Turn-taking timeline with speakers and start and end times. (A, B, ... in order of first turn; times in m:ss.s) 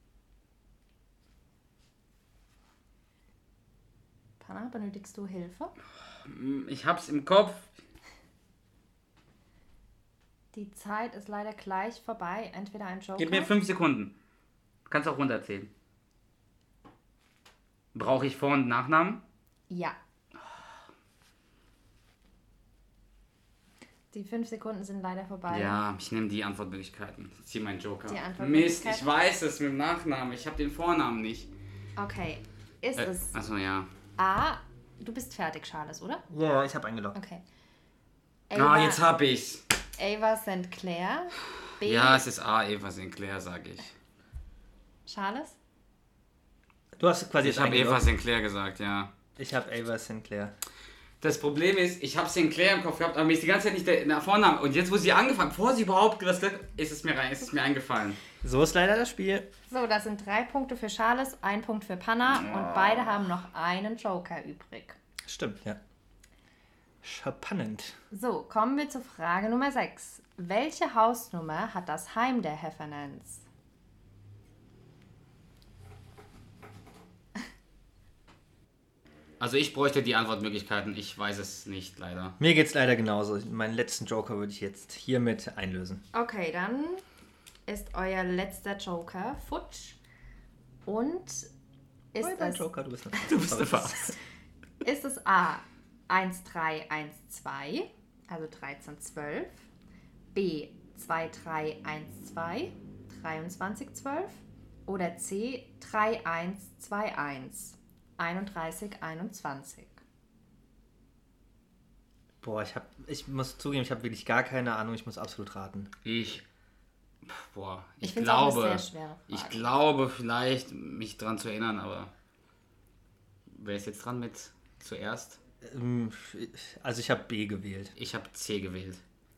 0:04.4-0:05.7 A
0:06.2-0:07.7 B
0:10.5-0:13.5 A
0:13.2-0:14.1 B
0:14.9-0:15.7 B
0:17.9-0:19.2 B
0:19.7-0:20.0 A
0:24.1-0:25.8 A
0:25.5-0:31.5 B
0:28.1-0:29.1 A
0:32.0-0:33.3 A
0:33.0-0:33.9 B
0:34.2-0:36.2 A
0:36.3-0:37.2 C
0:37.1-0:37.4 A
0:38.5-0:39.0 A
0:38.5-0:39.6 B
0:40.0-0:42.2 A
0:41.8-0:43.9 B
0:45.1-0:45.6 A
0:47.0-0:48.1 C
0:47.4-0:49.1 B
0:49.4-0:50.5 C
0:51.2-0:58.2 B
0:58.4-0:59.5 C
0:59.7-1:05.0 A
1:02.5-1:03.0 B
1:05.2-1:05.8 C
1:07.0-1:08.0 C
1:08.1-1:13.4 A
1:19.4-1:22.4 B
1:22.4-1:26.0 C
1:26.1-1:27.0 A
1:27.7-1:30.0 A
1:30.8-1:31.5 A
1:32.1-1:32.6 A
1:32.2-1:34.1 C
1:33.2-1:34.2 B
1:34.8-1:39.6 A
1:40.3-1:50.0 A
1:52.4-1:55.9 C
1:56.0-1:56.4 B
1:57.2-2:02.1 B
1:58.0-1:59.7 A
2:03.5-2:05.4 B
2:05.6-2:07.9 C
2:08.0-2:09.0 B